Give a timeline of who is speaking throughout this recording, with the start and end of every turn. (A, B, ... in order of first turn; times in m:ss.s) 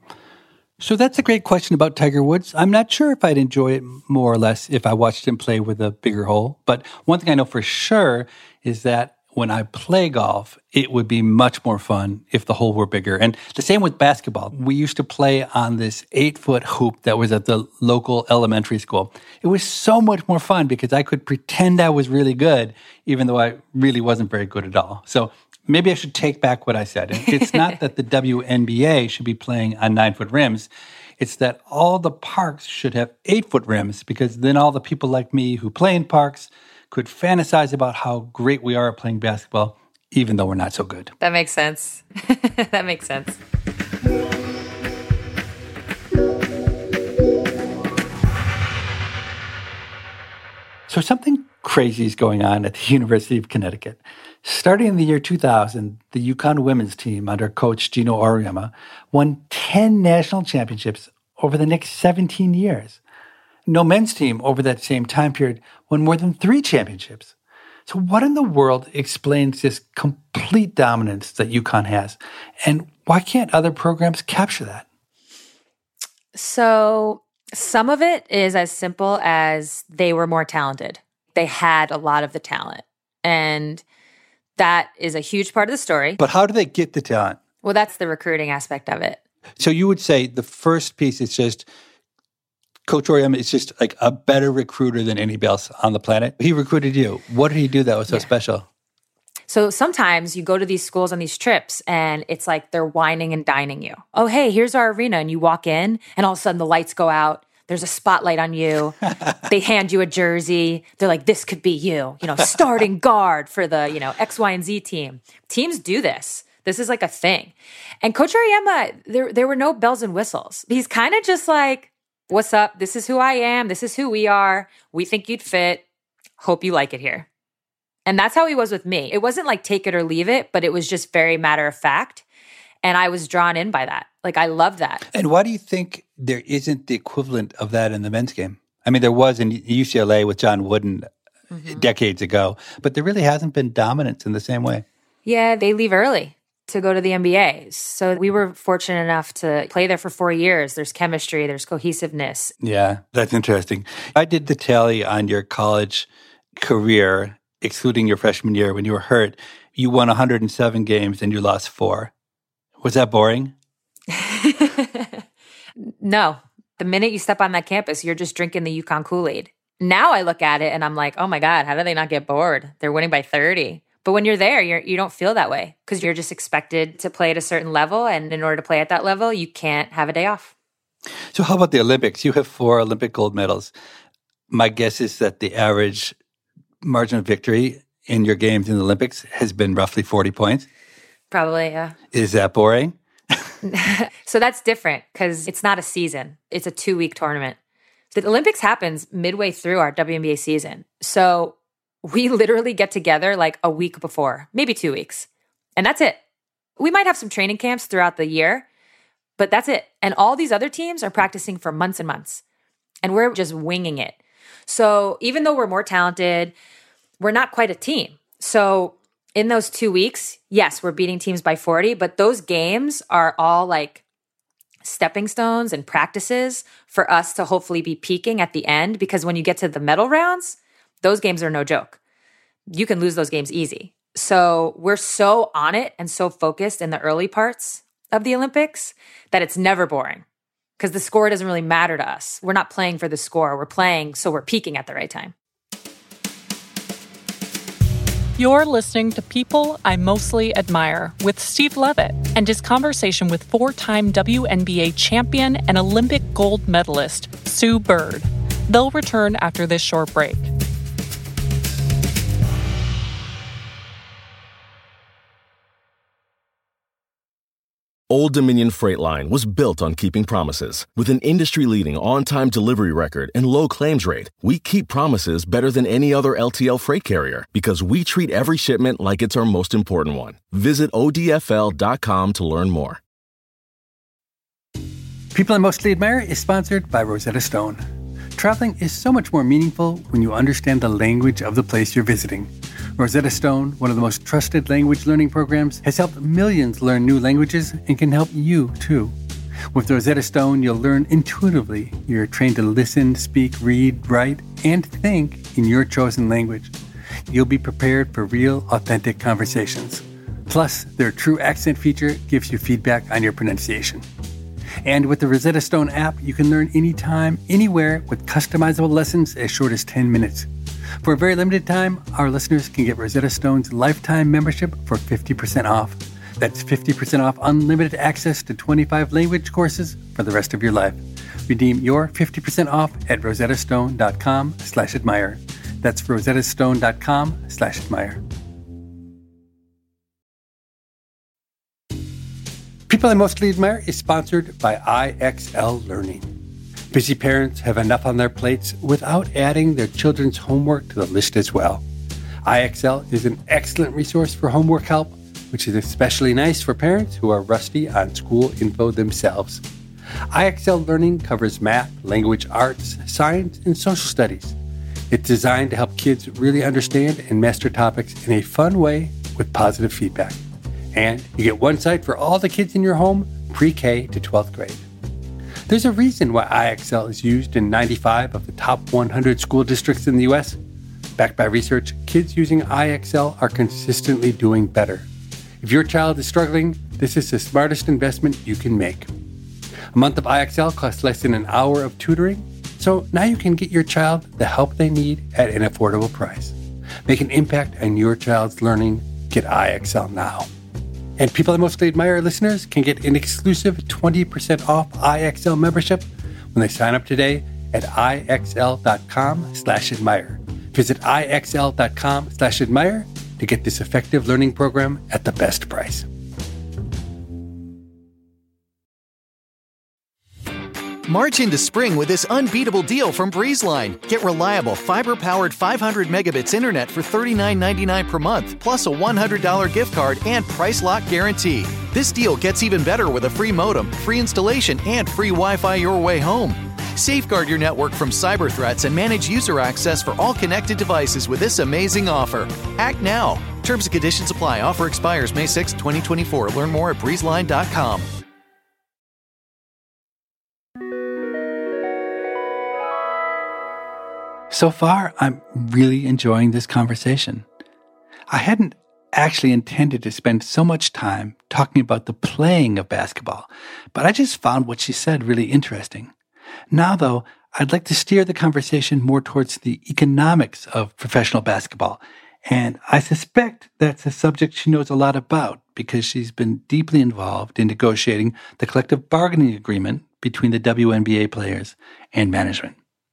0:00.8-0:41.1 A
0:27.3-0:27.6 B
0:41.2-0:43.4 B
0:50.9-1:03.0 A
1:03.6-1:07.3 A
1:07.9-1:14.8 A
1:16.3-1:23.8 B
1:24.6-1:26.2 B
1:26.2-1:27.4 A
1:27.6-1:29.2 B
1:29.6-1:31.7 A
1:32.9-1:38.7 A
1:39.5-2:05.8 B
2:06.4-2:07.3 B
2:08.0-2:12.2 B
2:12.8-2:15.0 B
2:15.1-2:21.1 A
2:21.6-2:24.8 A
2:25.2-2:32.5 B
2:32.6-2:42.1 A
2:42.8-2:43.5 A
2:44.1-2:45.2 B
2:45.8-3:00.5 B
3:01.3-3:03.7 A
3:04.5-3:06.2 A
3:06.8-3:10.7 A
3:11.3-3:11.9 B
3:12.1-3:13.5 A
3:13.6-3:17.6 B
3:18.1-3:26.2 B
3:26.8-3:28.6 B
3:29.4-3:32.4 B
3:33.0-3:36.5 B
3:37.2-3:44.0 B
3:44.8-3:52.0 B
3:52.7-4:00.2 B
4:00.8-4:05.3 B
4:08.4-4:20.5 C
4:28.1-4:43.0 D
4:45.3-4:47.8 A
4:48.4-4:59.1 A
4:59.7-5:06.7 A
5:07.3-5:14.0 A
5:14.8-5:20.5 A
5:21.0-5:38.2 A
5:42.9-5:46.3 A
5:46.9-5:51.8 A
5:52.4-5:59.6 A
6:00.3-6:04.6 A
6:05.1-6:10.4 A
6:10.9-6:14.8 A
6:15.7-6:20.6 A
6:21.2-6:25.1 A
6:25.6-6:29.1 A
6:29.9-6:40.5 A
6:41.2-6:56.1 A
7:01.1-7:28.0 E
7:34.5-7:37.4 A
7:38.3-7:46.1 A
7:46.7-8:02.8 A